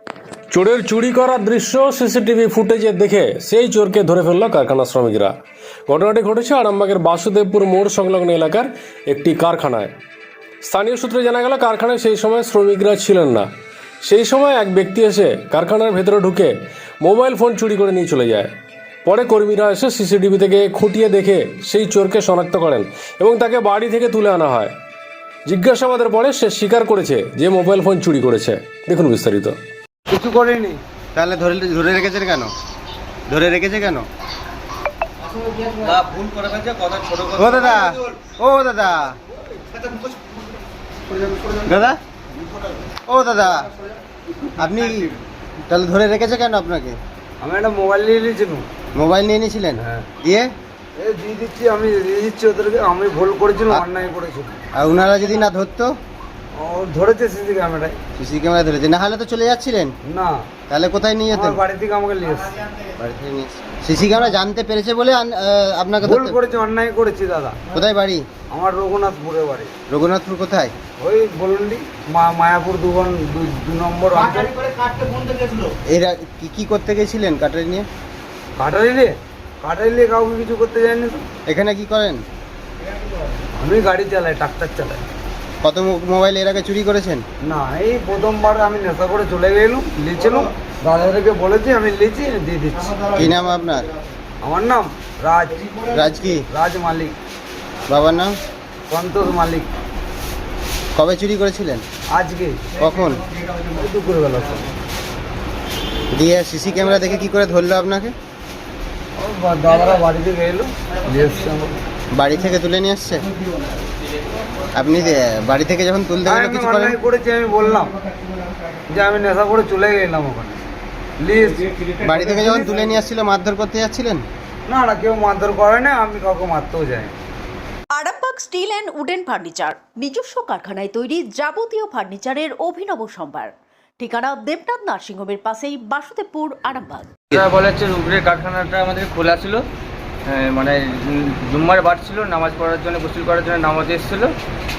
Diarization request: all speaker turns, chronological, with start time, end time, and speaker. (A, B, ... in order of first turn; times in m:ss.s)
0:00.5-0:05.3 A
0:05.9-0:09.9 A
0:10.6-0:13.5 A
0:14.0-0:18.5 A
0:19.0-0:24.7 A
0:25.4-0:29.6 A
0:30.1-0:30.8 B
0:31.1-0:32.5 C
0:33.3-0:34.1 C
0:36.8-0:39.2 C
0:41.6-0:42.0 C
0:43.1-0:43.7 C
0:44.6-0:47.0 C
0:47.4-0:48.6 B
0:48.9-0:50.5 C
0:49.8-0:50.0 B
0:51.0-0:54.6 B
0:54.8-0:55.9 C
0:56.6-0:58.0 B
0:58.2-0:59.9 C
1:00.1-1:00.3 B
1:00.7-1:01.6 C
1:01.3-1:02.5 B
1:03.0-1:06.4 C
1:06.0-1:07.6 B
1:07.7-1:08.2 C
1:08.5-1:09.7 B
1:09.9-1:10.7 C
1:11.0-1:14.6 B
1:15.9-1:17.9 C
1:18.6-1:21.2 B
1:21.5-1:22.2 C
1:23.6-1:25.0 B
1:25.6-1:27.2 C
1:27.4-1:33.0 B
1:33.1-1:33.9 C
1:34.4-1:35.6 B
1:35.9-1:36.4 C
1:36.5-1:37.1 B
1:37.9-1:38.3 C
1:38.9-1:39.7 B
1:41.0-1:41.8 C
1:42.1-1:42.6 B
1:42.8-1:43.2 C
1:43.8-1:44.7 B
1:46.1-1:48.1 C
1:49.2-1:51.7 B
1:52.1-1:53.3 C
1:54.7-1:57.0 C
1:56.3-1:57.9 B
1:58.9-2:00.6 B
2:01.2-2:01.7 B
2:02.0-2:04.2 C
2:02.2-2:02.8 B
2:04.7-2:07.1 B
2:07.9-2:17.1 D
2:17.3-2:19.6 E
2:20.3-2:24.3 E